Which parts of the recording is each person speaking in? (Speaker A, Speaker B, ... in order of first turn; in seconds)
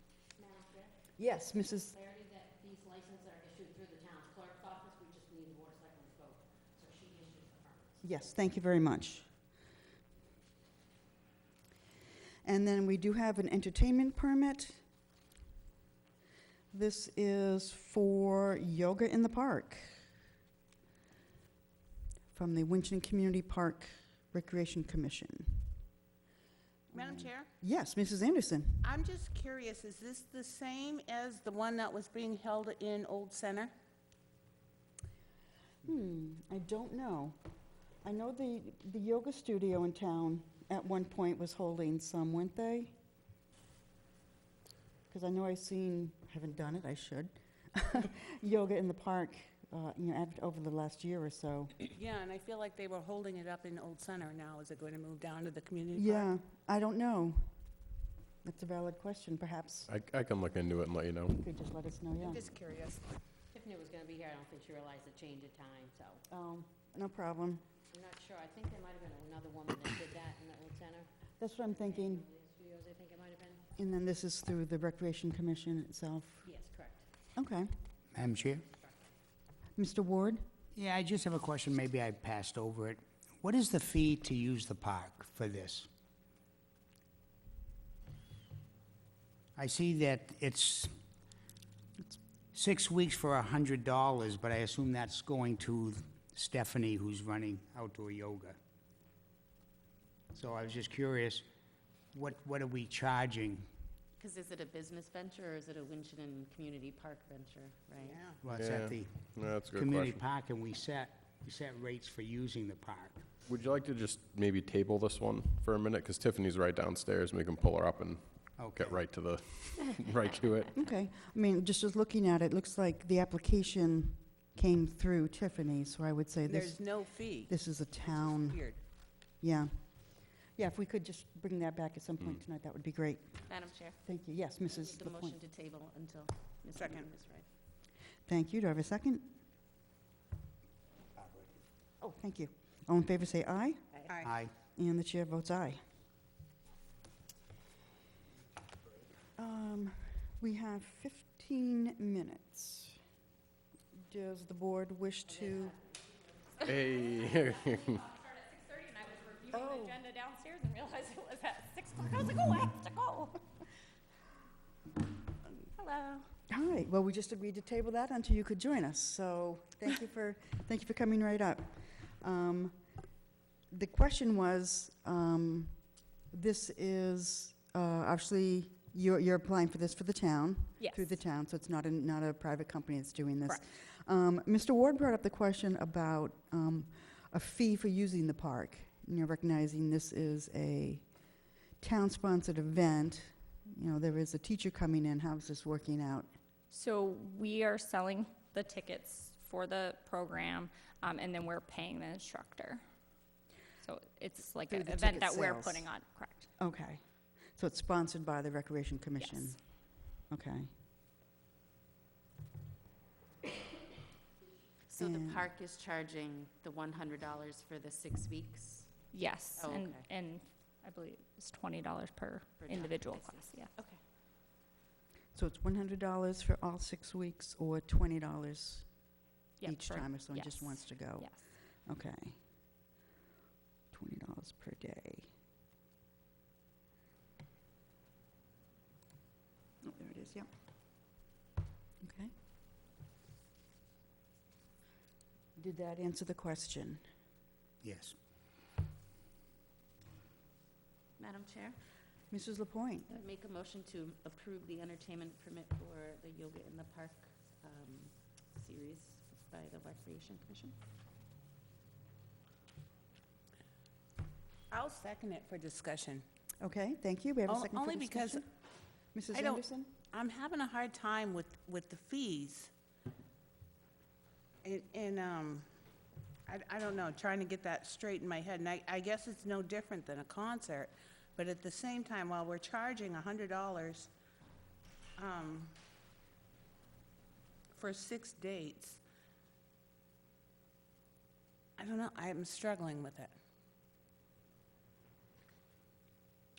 Speaker A: 0.4-1.0, 1.9-8.3, 63.5-66.2, 67.9-71.1, 71.7-73.7, 76.5-77.1, 78.6-79.1, 155.3-156.3
Speaker B: 1.2-1.9, 8.0-9.3, 12.4-14.8, 16.7-20.0, 22.3-25.8, 26.9-28.9, 35.8-37.4, 38.0-42.9, 45.1-51.7, 56.0-57.5, 58.4-59.9, 61.4-62.4, 66.3-67.6, 71.4-72.2, 73.8-76.5, 77.4-77.7, 79.8-80.5, 120.7-128.6, 129.4-135.4, 138.3-139.3, 142.0-143.9, 144.7-145.8, 149.4-153.0, 153.9-155.8, 159.6-159.9, 166.5-172.8, 173.7-175.8, 176.3-191.1, 191.8-196.3, 204.7-206.0, 206.6-207.0, 207.5-209.6, 210.3-210.7, 215.0-215.5, 225.3-228.9, 229.6-232.4, 233.9-235.3, 239.8-240.5, 242.0-242.3, 245.6-247.0, 252.3-253.1, 266.6-268.4, 269.1-269.9
Speaker C: 26.9-27.5, 28.8-33.7, 51.9-56.3, 62.2-63.0, 108.1-108.4, 126.5-128.8, 144.1-144.4, 264.7-266.2, 267.5-268.4, 269.3-272.7, 274.6-275.7, 276.5-284.1, 285.2-285.7, 287.7-289.0, 291.8-293.3
Speaker D: 59.9-61.4, 108.5-110.2, 113.5-120.7, 156.6-158.0
Speaker E: 78.1-78.6, 80.8-85.9, 89.6-90.9, 92.5-98.6, 100.3-101.5, 102.1-103.7, 108.4-113.3, 118.6-119.0, 141.2-141.5, 144.2-144.5, 247.8-248.2
Speaker F: 104.2-108.2, 133.5-134.0, 134.8-137.5, 214.9-218.9, 219.6-220.1, 222.6-224.0, 251.2-251.8, 253.1-260.8
Speaker G: 157.9-163.5, 165.8-166.3, 180.8-181.2, 196.7-202.8, 203.8-206.5, 209.2-209.6, 219.1-223.7, 229.6-231.4